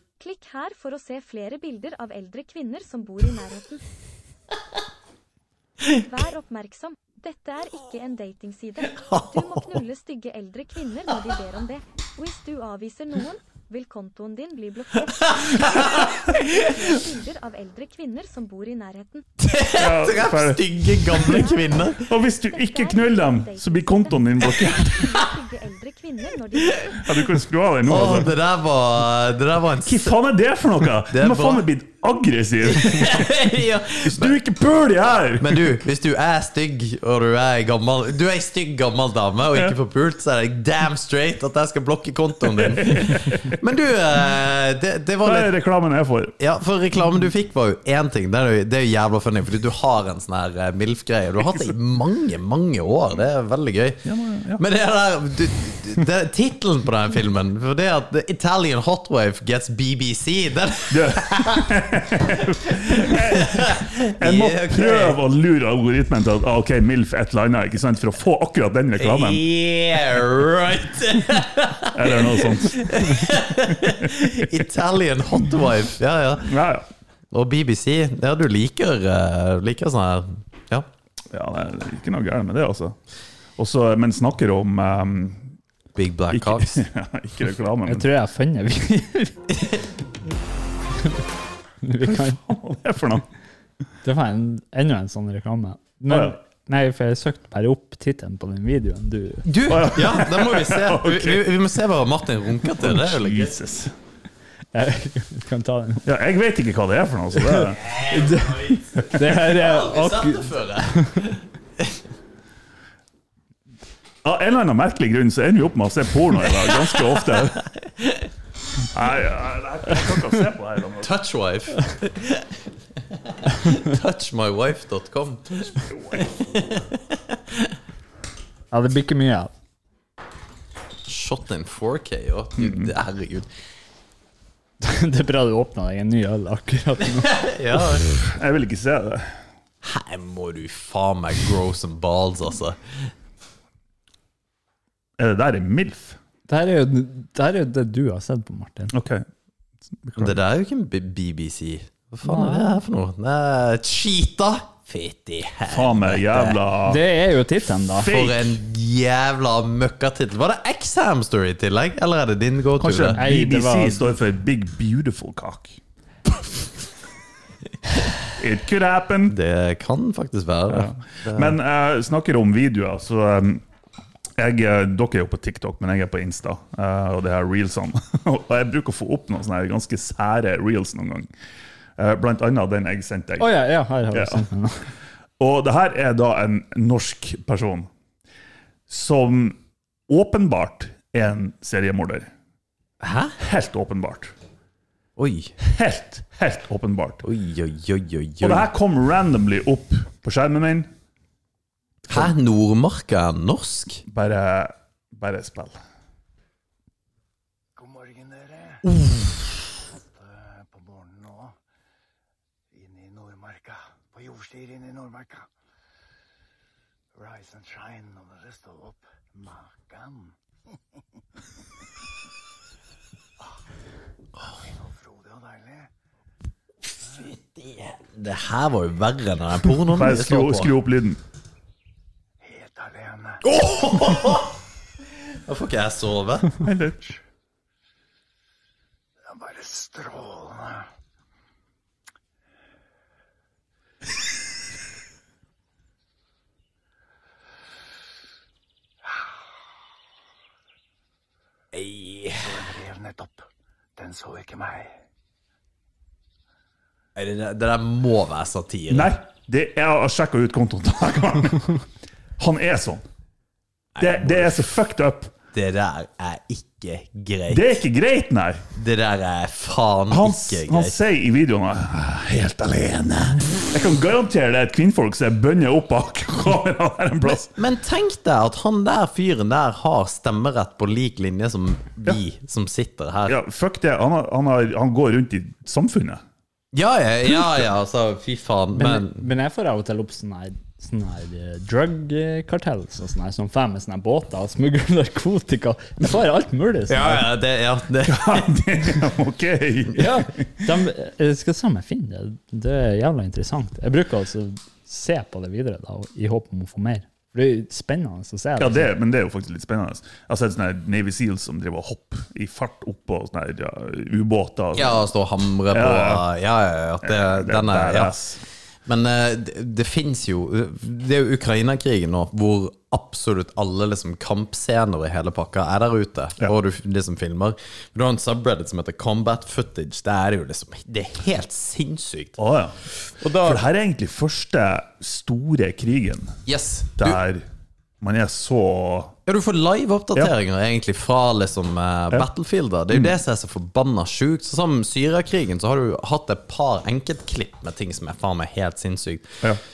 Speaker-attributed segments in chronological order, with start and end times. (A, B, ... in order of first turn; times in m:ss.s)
0:00.2-0:03.8 A
0:05.9-0:19.2 A
0:08.9-0:09.8 B
0:15.1-0:16.7 B
0:19.4-0:22.0 B
0:19.8-0:21.3 C
0:21.2-0:21.7 A
0:22.1-0:25.0 C
0:22.5-0:27.0 A
0:26.6-0:27.0 B
0:27.0-0:28.3 C
0:27.9-0:30.2 B
0:29.8-0:33.5 C
0:31.1-0:31.6 B
0:32.6-0:34.4 B
0:34.0-0:35.8 C
0:35.4-0:45.5 B
0:42.4-0:43.4 C
0:45.2-0:46.4 C
0:46.4-0:54.0 B
0:54.0-0:54.6 C
0:54.6-1:01.7 B
1:00.9-1:09.4 C
1:02.6-1:05.2 B
1:09.0-1:16.5 B
1:11.9-1:14.6 C
1:16.4-1:16.9 C
1:17.3-1:20.9 B
1:21.3-1:23.0 C
1:23.6-1:25.5 C
1:26.0-1:26.8 B
1:26.3-1:28.1 C
1:27.9-1:29.6 D
1:31.8-1:32.4 D
1:32.0-1:33.3 C
1:34.0-1:39.4 D
1:36.1-1:36.4 C
1:39.4-1:43.6 B
1:39.7-1:41.6 C
1:42.7-1:43.9 C
1:44.7-1:46.0 D
1:46.0-1:47.8 C
1:47.4-1:51.3 D
1:47.8-1:52.0 B
1:54.2-1:57.6 C
1:56.7-1:58.3 B
1:58.9-2:01.1 C
2:01.0-2:02.6 B
2:03.1-2:07.7 B
2:05.9-2:06.2 C
2:08.7-2:09.5 D
2:11.1-2:13.5 B
2:12.6-2:12.9 C
2:14.8-2:17.4 D
2:17.2-2:18.1 B
2:18.1-2:19.4 C
2:19.8-2:23.1 B
2:25.2-2:26.2 C
2:26.5-2:28.9 D
2:28.9-2:29.3 C
2:30.0-2:30.4 C
2:30.2-2:36.6 B
2:32.2-2:32.8 D
2:35.7-2:37.0 C
2:36.9-2:38.2 D
2:37.9-2:38.6 C
2:38.0-2:43.2 B
2:42.8-2:45.8 C
2:43.2-2:44.0 D
2:48.4-2:49.4 C
2:49.3-2:51.6 B
2:50.7-2:53.6 C
2:54.4-3:01.3 C
3:02.0-3:03.5 C
3:03.4-3:04.9 D
3:04.1-3:04.4 C
3:05.4-3:07.9 C
3:08.9-3:09.6 C
3:10.1-3:12.3 C
3:13.0-3:13.4 B
3:13.4-3:14.3 C
3:15.2-3:15.5 B
3:15.6-3:17.2 C
3:17.2-3:18.7 B
3:18.4-3:20.9 C
3:22.1-3:24.0 B
3:24.1-3:25.8 C
3:27.8-3:28.9 E
3:28.8-3:29.5 B
3:30.0-3:31.6 E
3:32.7-3:35.5 E
3:37.2-3:40.4 E
3:44.4-3:45.9 E
3:47.0-3:50.7 B
3:49.9-3:51.2 C
3:52.4-3:53.4 E
3:53.4-3:54.6 B
3:55.4-3:56.5 B
3:56.6-3:57.1 C
3:59.3-4:00.9 E
4:11.7-4:12.6 B
4:12.4-4:15.0 E
4:17.2-4:19.1 B
4:18.9-4:21.8 C
4:22.4-4:23.0 C
4:24.0-4:24.6 B
4:24.0-4:25.3 C
4:25.5-4:27.7 B
4:27.5-4:28.6 C
4:28.7-4:31.0 B
4:30.1-4:37.6 C
4:37.3-4:43.4 B
4:43.3-4:46.2 C
4:46.7-4:49.2 B
4:48.8-4:57.3 D
4:56.9-4:58.5 B
4:58.0-5:00.7 C
5:00.0-5:08.9 D
5:08.6-5:15.0 C
5:14.7-5:18.2 B
5:15.7-5:16.2 C
5:17.0-5:18.4 C
5:18.9-5:32.4 B
5:32.4-5:32.8 C
5:33.0-5:33.6 B
5:33.3-5:36.4 C
5:36.5-5:37.2 B
5:37.0-5:37.5 C
5:38.0-5:39.2 C
5:39.3-5:49.4 B
5:42.9-5:43.2 C